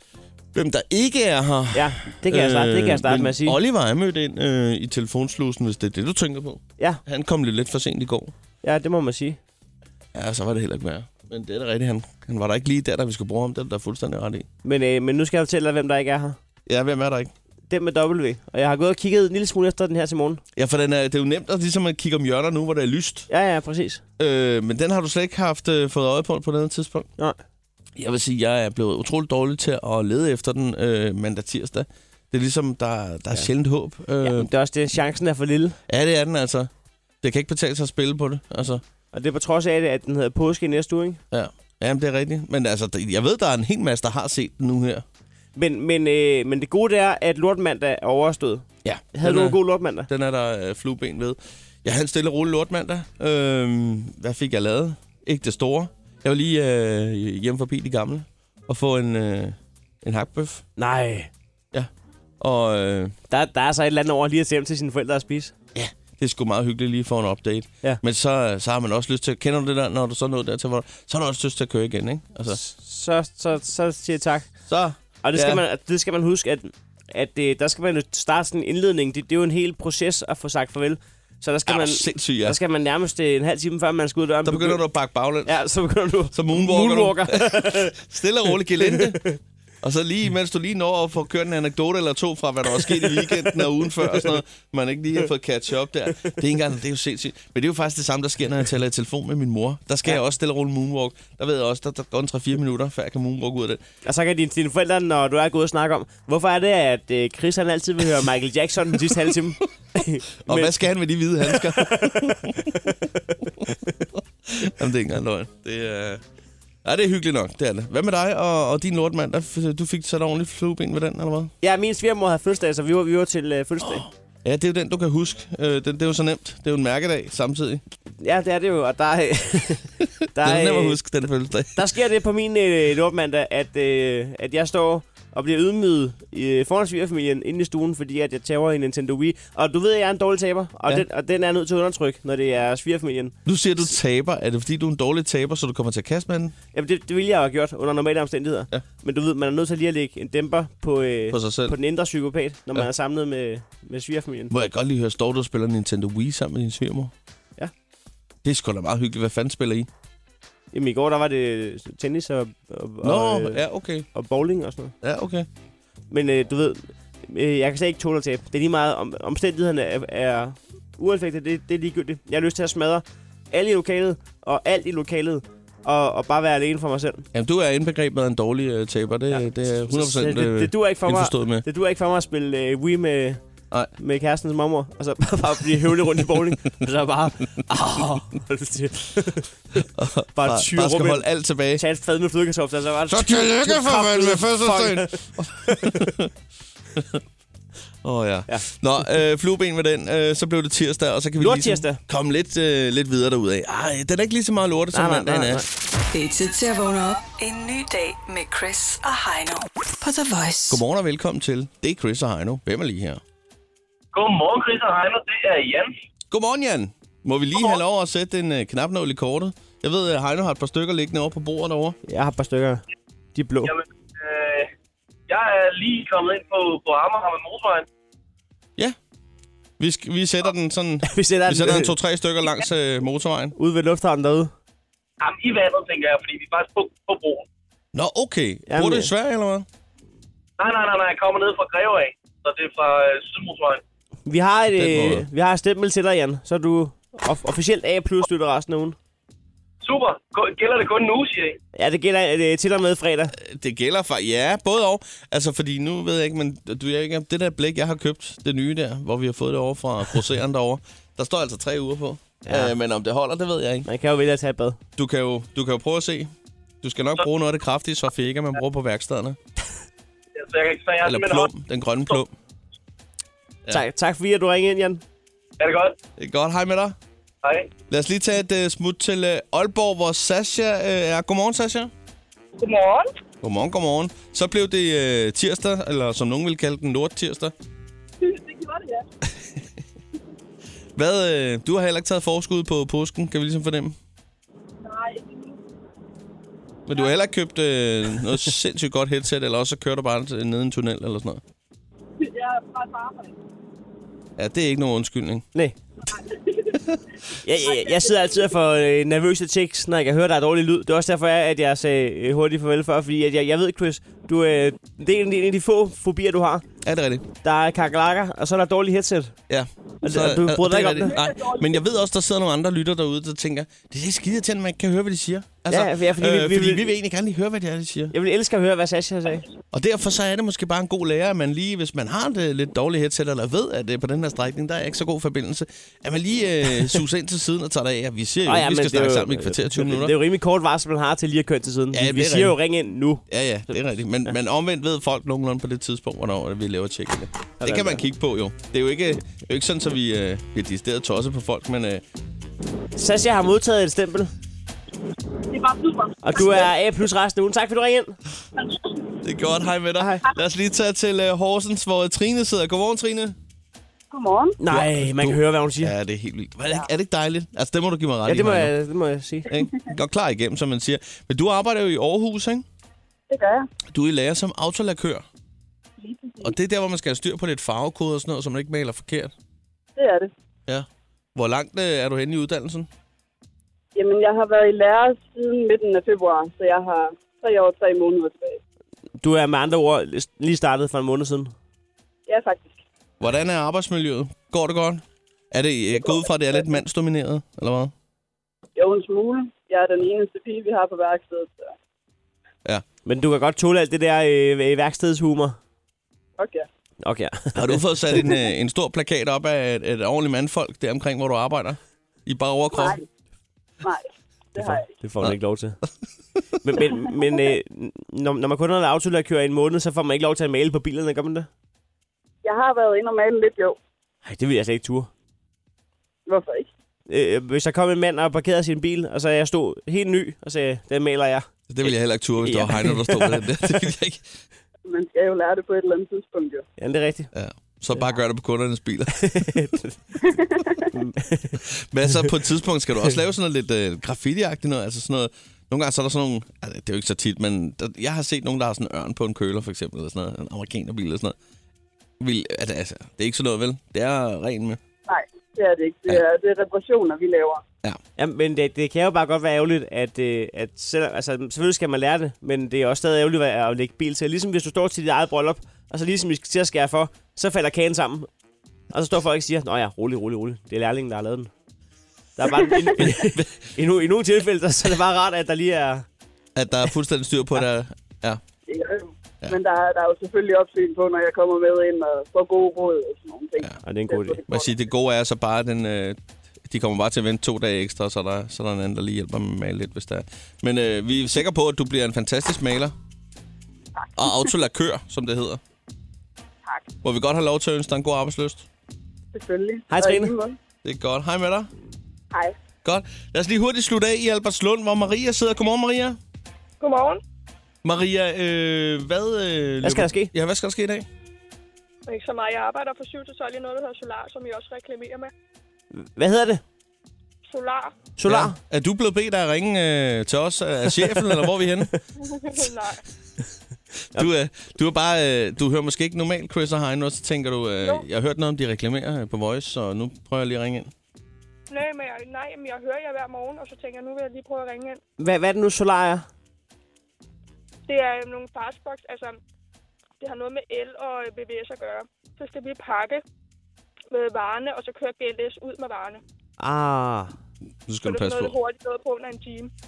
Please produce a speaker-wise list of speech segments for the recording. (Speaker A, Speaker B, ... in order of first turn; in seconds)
Speaker A: 0.5-8.3, 10.1-14.5, 16.6-17.3, 20.6-23.3, 24.2-27.1, 27.9-34.5, 35.9-36.7, 37.2-38.8, 41.3-45.0, 48.8-60.6, 61.7-63.1, 65.7-72.6, 74.7-75.6, 81.7-82.6, 84.4-85.5, 86.3-89.3, 89.8-103.8, 110.5-112.7, 114.1-116.2, 116.8-121.5, 123.8-127.8, 130.4-131.8, 143.4-146.5, 151.3-151.7, 154.5-157.1, 158.4-159.9, 163.0-164.1, 165.0-165.5, 177.3-181.6, 189.9-191.8, 193.1-196.3, 196.9-197.2, 198.0-205.6, 210.7-213.2, 216.3-222.0, 229.8-233.5, 237.9-239.7, 244.8-245.2, 253.3-263.9, 265.0-269.4, 271.0-272.3, 276.2-276.9, 277.9-281.9, 283.4-287.5, 289.2-289.6, 290.9-294.0, 296.9-301.4, 304.4-305.4, 316.8-317.2, 319.5-328.1, 329.7-340.1, 341.9-342.6, 343.3-352.0, 359.2-363.4, 364.7-368.7, 369.5-372.6, 373.9-375.2, 376.4-379.3, 380.7-382.9, 393.2-397.9, 407.5-413.0, 431.7-434.4, 437.3-439.6, 441.6-451.4, 452.2-454.8, 473.0-473.5, 476.6-478.4, 484.5-492.9, 494.1-495.6, 497.0-498.6, 500.8-501.7, 502.8-506.2, 507.8-511.1, 518.2-521.9, 524.1-530.9, 547.9-548.6
Speaker B: 1.7-3.6, 8.6-9.4, 14.6-16.4, 17.7-20.4, 23.3-24.0, 34.2-35.8, 39.1-41.2, 45.5-50.1, 60.8-61.3, 63.3-65.5, 72.5-74.5, 75.2-84.8, 85.4-88.0, 88.8-89.4, 92.8-93.6, 104.0-110.7, 111.6-113.7, 121.6-124.0, 128.2-131.0, 131.7-143.4, 146.7-154.5, 160.7-163.6, 164.1-164.9, 166.1-177.3, 179.3-183.4, 184.0-196.1, 201.4-202.0, 204.9-205.7, 222.1-222.8, 223.3-223.7, 231.0-231.9, 233.6-234.5, 238.7-239.1, 244.3-248.9, 251.7-253.3, 262.4-262.7, 263.8-264.8, 273.7-275.0, 307.4-316.6, 317.4-319.3, 320.0-321.1, 325.7-326.9, 328.1-329.4, 338.4-343.2, 347.6-348.0, 352.9-354.3, 356.2-358.2, 364.6-365.9, 368.2-369.5, 389.2-391.5, 403.0-405.6, 407.0-407.8, 414.6-415.8, 416.6-421.5, 424.2-425.1, 427.1-431.5, 432.4-433.8, 436.8-437.3, 439.2-440.0, 440.9-441.6, 458.2-468.3, 468.9-471.5, 472.4-476.1, 483.8-484.4, 499.9-500.3, 509.8-510.3, 515.9-516.6, 518.2-518.6, 535.2-536.3, 546.6-547.3
Speaker C: 206.0-210.8
Speaker D: 214.1-215.9, 223.6-224.7, 225.3-227.9, 235.2-237.5, 240.6-243.8, 249.8-251.6, 270.4-271.5, 275.6-275.9, 277.4-277.7
Speaker E: 288.2-289.1, 294.8-295.6, 302.2-303.4, 306.0-306.8, 307.6-308.4, 321.0-321.8, 355.5-356.7, 358.6-358.9, 364.1-364.6, 373.3-373.7, 376.0-376.5, 379.9-380.3, 383.9-388.6, 392.3-392.8, 396.0-396.2, 398.8-401.7, 406.4-406.7, 412.7-413.0, 413.8-414.9, 422.4-423.8, 426.3-426.7, 434.9-436.6, 440.2-440.9, 455.1-457.6, 478.7-484.7, 494.0-494.4, 499.3-500.6
Speaker F: 506.8-507.2, 512.1-515.3, 517.5-517.9, 522.2-523.0, 531.7-535.0, 537.9-539.4, 540.2-543.2, 544.1-546.2, 548.0-549.7